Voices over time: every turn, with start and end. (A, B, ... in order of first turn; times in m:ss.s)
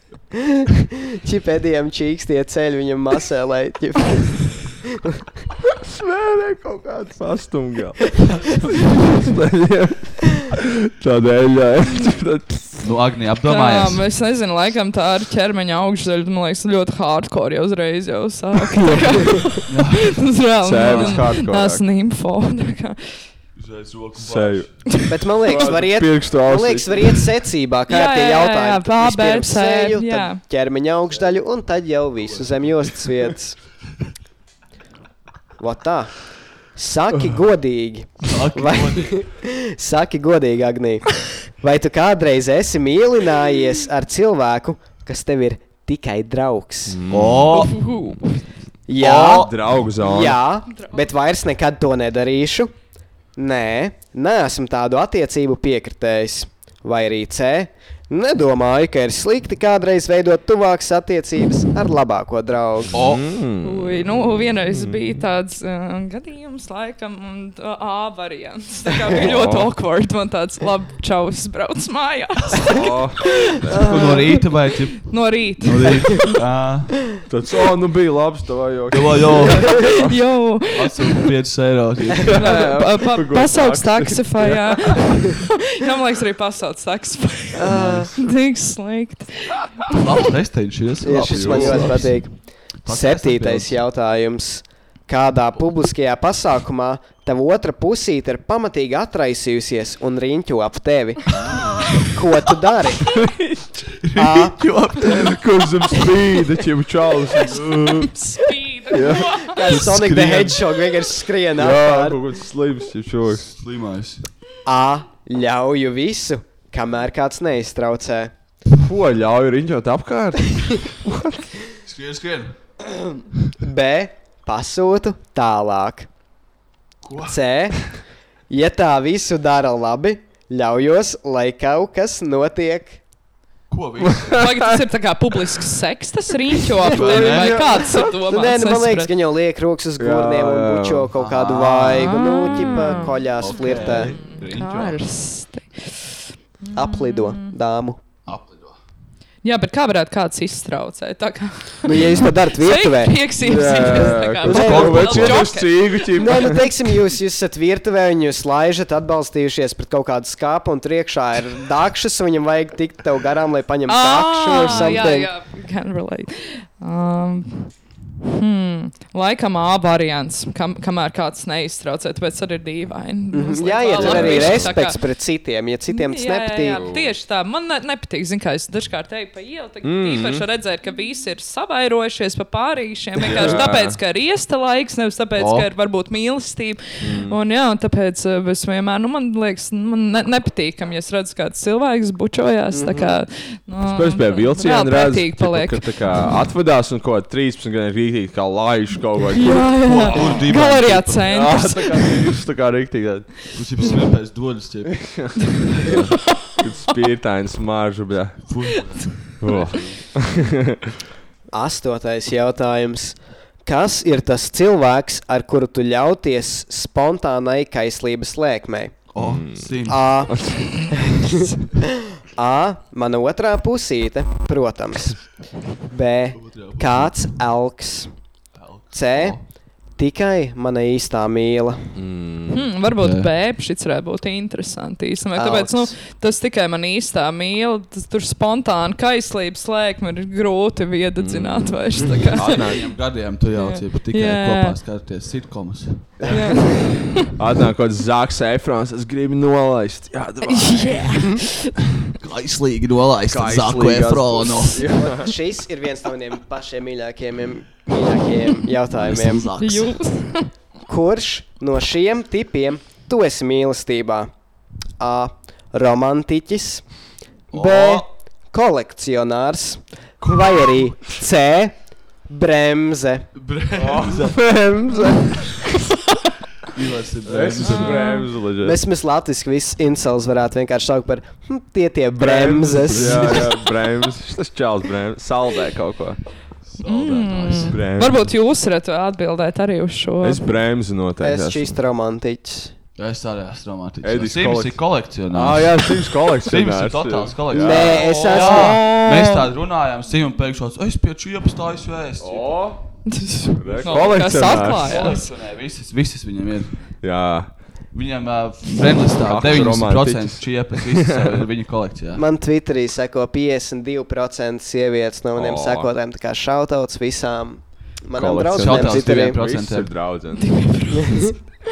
0:00.4-0:04.8 A
0:05.8-0:08.5 B
0:09.0-0:12.8 B
0:12.8-0:14.0 C
0:13.5-0:23.2 D
0:18.6-0:19.6 B
0:19.7-0:20.2 C
0:20.6-0:21.8 B
0:20.8-0:21.2 C
0:23.6-0:25.8 C
0:24.2-0:24.7 B
0:25.0-0:33.6 A
0:25.5-0:27.2 B
0:27.9-0:30.4 D
0:31.1-0:31.4 C
0:32.2-0:32.9 C
0:35.6-0:47.0 A
0:38.2-0:39.3 C
0:46.8-0:47.6 B
0:47.1-0:47.8 C
0:47.5-0:48.4 D
0:48.9-0:52.7 A
0:49.0-0:49.5 C
0:49.1-0:50.4 B
0:53.4-1:03.0 A
1:02.9-1:04.1 B
1:02.9-1:03.2 C
1:03.6-1:12.8 D
1:04.7-1:05.1 B
1:09.1-1:09.7 B
1:12.6-1:13.9 B
1:13.7-1:14.2 D
1:13.7-1:14.1 A
1:13.8-1:17.0 C
1:15.0-1:16.3 D
1:17.3-1:20.2 B
1:18.9-1:19.9 C
1:19.7-1:21.3 D
1:20.7-1:22.4 C
1:22.2-1:25.3 B
1:22.3-1:30.0 D
1:27.6-1:28.1 A
1:27.7-1:28.1 C
1:30.0-1:32.3 C
1:31.0-1:41.4 A
1:31.2-1:31.9 B
1:32.8-1:33.8 C
1:41.9-1:43.2 A
1:43.1-1:43.9 B
1:44.0-1:45.4 C
1:44.2-1:44.6 A
1:45.0-1:48.1 B
1:47.6-1:48.0 C
1:48.0-1:49.6 D
1:48.9-1:49.4 B
1:49.4-1:52.2 A
1:49.6-1:50.6 C
1:51.5-1:53.5 B
1:53.5-1:54.2 C
1:54.6-1:58.3 A
1:58.7-2:01.4 B
2:01.8-2:02.6 C
2:03.6-2:06.1 A
2:07.0-2:07.4 C
2:07.3-2:13.0 A
2:13.7-2:14.4 C
2:14.2-2:14.6 B
2:14.3-2:19.1 D
2:16.9-2:17.7 C
2:17.0-2:24.2 A
2:20.0-2:21.1 B
2:21.1-2:25.0 C
2:22.0-2:27.5 D
2:26.7-2:28.0 A
2:28.2-2:28.8 C
2:29.4-2:36.6 D
2:31.8-2:33.2 A
2:33.4-2:36.7 B
2:33.8-2:35.2 A
2:34.4-2:35.4 C
2:36.1-2:45.3 A
2:43.8-2:47.7 D
2:48.2-2:55.0 D
2:53.3-2:56.8 A
2:53.9-2:54.7 B
2:55.9-3:16.0 D
2:56.7-2:57.1 B
2:59.8-3:00.4 B
3:03.2-3:04.0 B
3:05.4-3:05.7 C
3:07.0-3:07.4 B
3:12.7-3:13.1 A
3:13.8-3:20.4 B
3:19.3-3:22.3 D
3:19.8-3:21.4 C
3:21.2-3:24.0 B
3:23.5-3:26.2 C
3:25.0-3:25.3 B
3:25.8-3:28.8 B
3:28.5-3:30.0 C
3:29.4-3:30.9 B
3:29.5-3:29.7 D
3:31.5-3:39.0 A
3:39.1-3:40.2 C
3:39.2-3:39.7 B
3:39.9-3:41.5 A
3:40.3-3:40.8 B
3:42.3-3:45.3 A
3:45.9-3:48.1 A
3:46.4-3:47.3 C
3:48.6-3:49.4 C
3:48.9-3:49.4 A
3:50.0-3:51.9 A
3:51.9-3:52.7 B
3:52.5-4:02.7 D
3:53.0-3:53.3 C
3:55.3-3:55.9 A
4:01.2-4:02.9 B
4:02.2-4:06.3 C
4:03.5-4:04.8 D
4:06.3-4:07.3 D
4:07.2-4:11.4 B
4:10.4-4:11.9 D
4:12.0-4:14.9 C
4:13.3-4:15.3 B
4:14.8-4:19.5 A
4:18.9-4:20.0 C
4:19.6-4:20.5 D
4:20.9-4:24.3 A
4:25.0-4:26.8 A
4:27.5-4:28.1 C
4:27.5-4:31.8 A
4:32.3-4:33.3 A
4:33.4-4:34.5 C
4:33.7-4:35.9 B
4:36.6-4:38.0 C
4:37.2-4:38.8 B
4:37.6-4:38.3 D
4:38.6-4:43.5 A
4:42.2-4:46.2 B
4:42.8-4:43.5 C
4:46.7-4:47.8 C
4:46.8-4:50.4 D
4:47.7-4:48.2 B
4:50.2-4:51.8 B
4:51.2-4:52.7 A
4:53.0-5:02.6 C
4:54.0-4:58.2 B
4:57.5-4:58.9 A
4:57.9-4:59.4 D
5:02.2-5:02.8 B
5:03.0-5:05.3 D
5:03.6-5:05.2 B
5:03.8-5:06.8 C
5:07.0-5:07.5 B
5:07.9-5:12.2 C
5:09.2-5:11.4 B
5:12.1-5:19.4 A
5:15.3-5:15.9 B
5:18.1-5:20.7 B
5:18.5-5:19.9 C
5:20.4-5:21.4 D